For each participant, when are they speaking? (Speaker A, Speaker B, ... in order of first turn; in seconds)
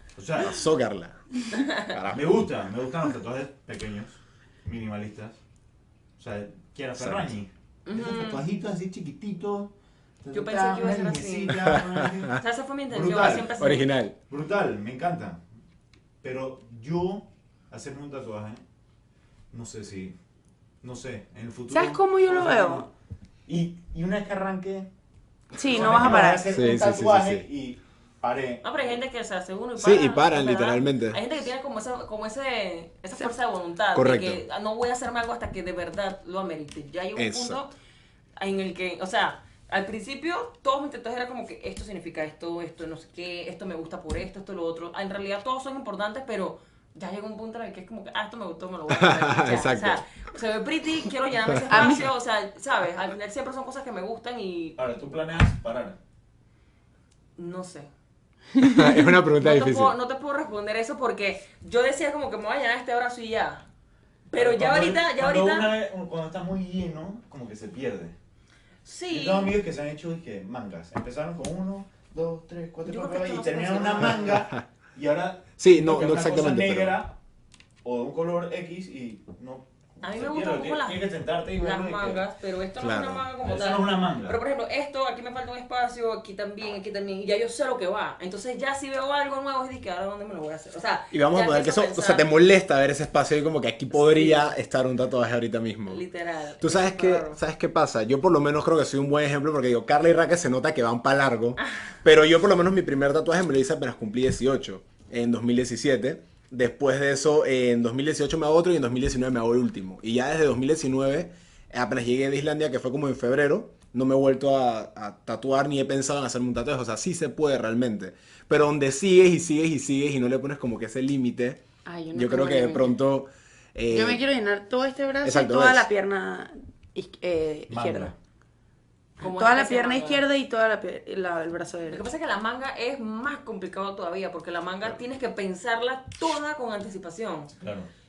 Speaker A: 0.1-0.6, 2.1-5.4, 6.2-9.7, 10.2-13.5, 14.3-15.4, 16.2-18.6, 19.5-20.1, 20.8-22.9, 23.5-24.9, 25.6-29.0, 54.8-56.0, 64.3-68.1, 69.1-77.1, 77.8-82.2, 83.4-84.4, 127.7-128.2, 137.6-137.9
Speaker B: 0.4-1.2, 1.9-2.3, 7.0-7.3, 11.6-12.4, 13.6-14.1, 26.5-27.5, 29.8-31.2, 33.9-34.4, 37.1-37.6, 48.9-50.0, 58.6-59.9, 75.6-77.0, 82.8-83.3, 91.1-96.0, 96.6-121.6, 122.1-124.2, 125.2-125.9
Speaker C: 1.5-2.0, 7.8-8.4, 10.3-11.6, 12.4-13.9, 28.6-37.7, 38.4-54.8, 57.4-57.9, 59.0-63.6, 64.3-65.8, 68.8-69.6, 72.8-74.4, 80.0-81.0, 81.5-92.3, 93.9-94.5, 95.9-97.4, 101.6-101.9, 129.2-130.2, 131.9-137.5
Speaker D: 21.7-22.9, 25.5-26.5, 51.7-52.1, 58.6-58.9, 121.8-123.0, 123.9-128.1, 129.2-132.0